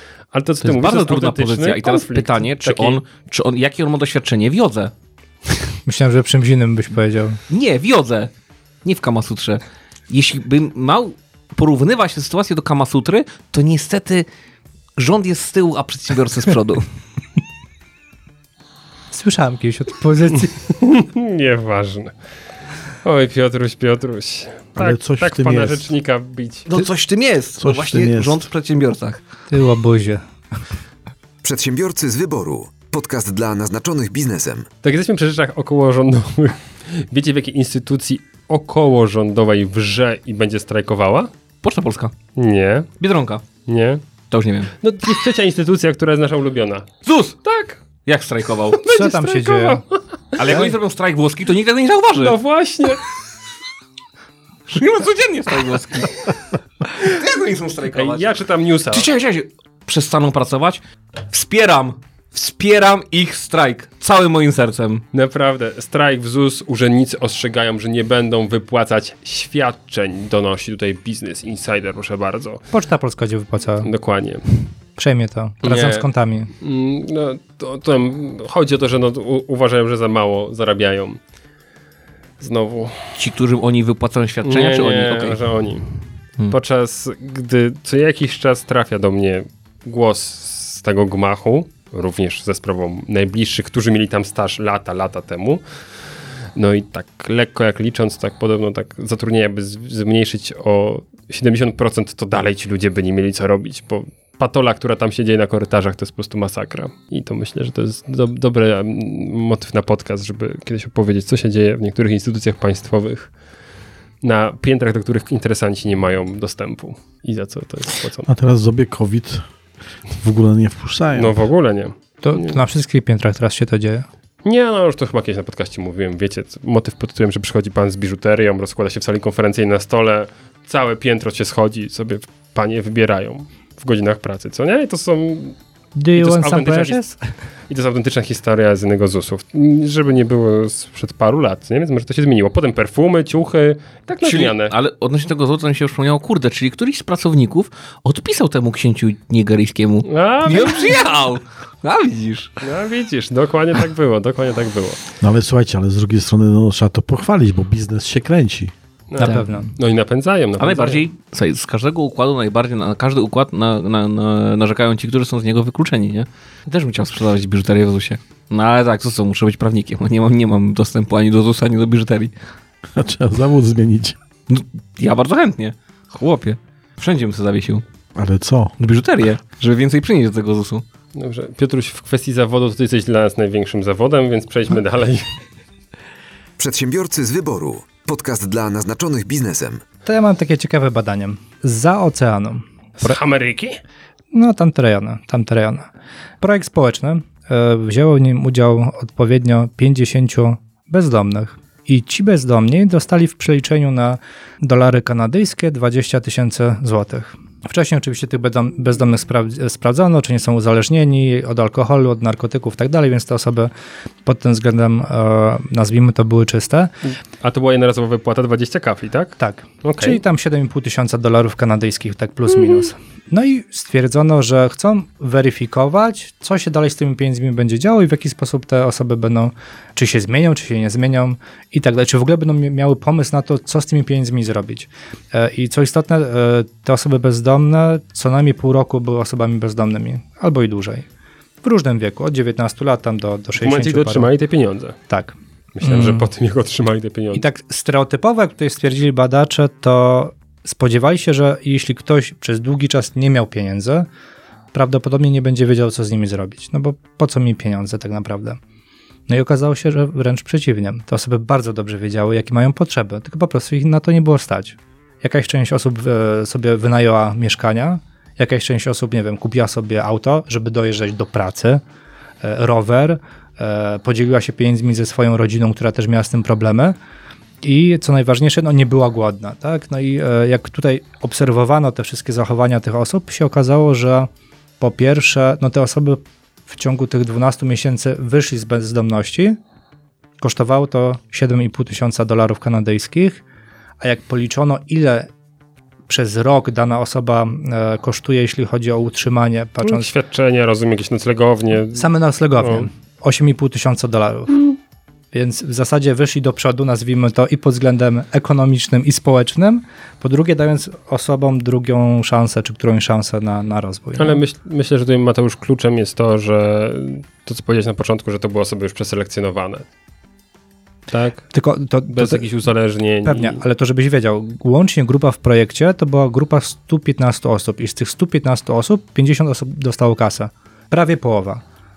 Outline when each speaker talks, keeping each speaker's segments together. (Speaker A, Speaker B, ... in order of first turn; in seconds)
Speaker A: 0.3-3.0, 20.4-22.1, 23.0-26.7, 34.8-41.3, 42.4-42.9, 43.7-44.0, 44.8-47.8, 48.8-50.7, 52.2-53.1, 57.9-59.1, 65.1-72.6, 73.8-74.5, 75.6-81.2, 82.4-83.2, 84.4-86.0, 86.5-95.8, 96.6-113.4, 114.2-118.3, 121.1-122.6, 124.5-135.6, 136.2-137.2, 137.7-144.7, 150.1-151.0, 152.6-155.0, 159.1-161.0, 181.2-185.3, 193.0-193.8, 217.4-220.2, 243.6-245.0, 245.8-247.4, 299.8-302.9, 314.2-319.9, 321.1-321.5, 322.1-323.6
Speaker B: 0.6-4.9, 7.5-8.3, 8.8-14.3, 15.0-16.9, 26.7-29.2, 41.6-42.1, 43.0-43.4, 44.3-44.7, 47.0-47.4, 48.0-48.8, 50.4-52.4, 54.7-56.4, 57.0-58.3, 58.9-65.0, 83.2-85.4, 144.1-152.5, 159.2-159.5, 160.6-172.3, 174.5-177.8, 178.8-180.8
Speaker C: 5.9-7.4, 19.1-20.7, 29.5-30.2, 48.9-49.8, 72.7-73.9, 75.0-76.5, 122.2-124.1, 136.0-137.3, 159.2-159.7, 190.1-193.2, 194.3-195.9, 196.4-213.7, 214.2-216.9, 219.4-241.1, 241.6-244.3, 245.1-246.3, 247.3-254.1, 254.7-258.6, 259.3-271.8, 272.4-277.0, 277.6-284.3, 284.8-289.6, 290.4-293.4, 294.0-295.3, 296.1-300.1, 301.9-304.6, 305.3-314.4, 321.5-322.5, 323.2-331.6
Speaker D: 24.8-25.9, 27.6-28.5, 118.3-119.5, 120.2-121.4, 155.2-158.7, 172.9-174.2, 178.2-178.8
Speaker E: 31.4-34.7, 186.6-189.8